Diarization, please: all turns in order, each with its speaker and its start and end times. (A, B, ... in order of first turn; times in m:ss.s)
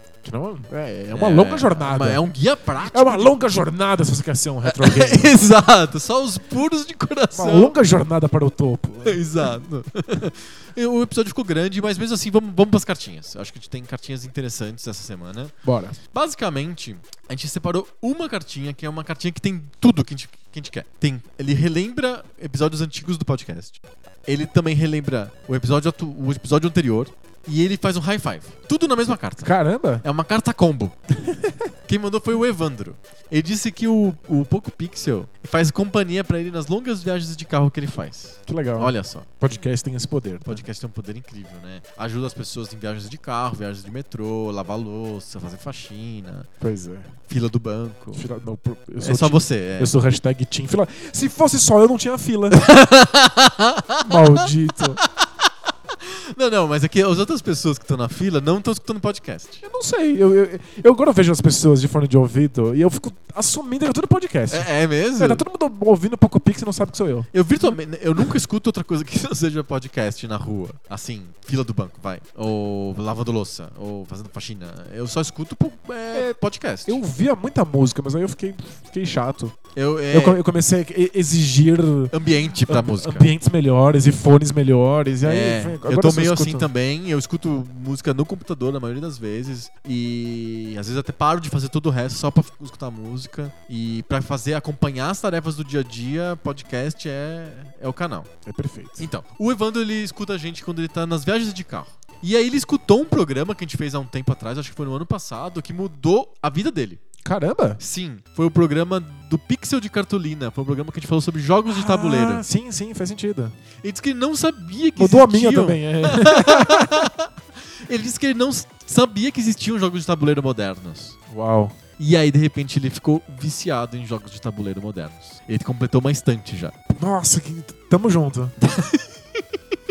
0:00.2-0:02.2 A
0:01.1-0:03.4 B
0:02.8-0:05.4 A
0:04.6-0:07.8 B
0:07.3-0:09.6 A
0:09.0-0:15.5 B
0:15.6-0:16.0 A
0:16.1-0:31.0 B
0:29.4-0:30.0 A
0:31.2-0:31.7 A
0:31.9-0:39.4 B
0:38.5-0:40.6 A
0:40.4-0:46.5 B
0:46.6-0:47.1 A
0:47.3-0:48.2 B
0:48.1-0:52.6 A
0:49.0-0:49.9 B
0:52.5-0:55.5 B
0:54.0-0:55.0 A
0:56.0-0:59.6 B
0:59.6-1:07.7 A
1:04.5-1:05.4 B
1:07.3-1:17.0 B
1:16.1-1:19.6 A
1:19.7-1:20.4 B
1:20.1-1:26.7 A
1:22.1-1:23.3 B
1:25.2-1:38.3 B
1:38.4-1:39.1 A
1:39.0-1:47.0 B
1:47.2-1:47.8 A
1:47.8-1:52.4 B
1:51.7-1:53.6 A
1:53.8-1:57.3 B
1:55.0-1:57.1 A
1:57.8-2:01.2 B
2:01.3-2:01.8 A
2:02.0-2:06.7 B
2:06.9-2:08.5 A
2:08.6-2:09.4 B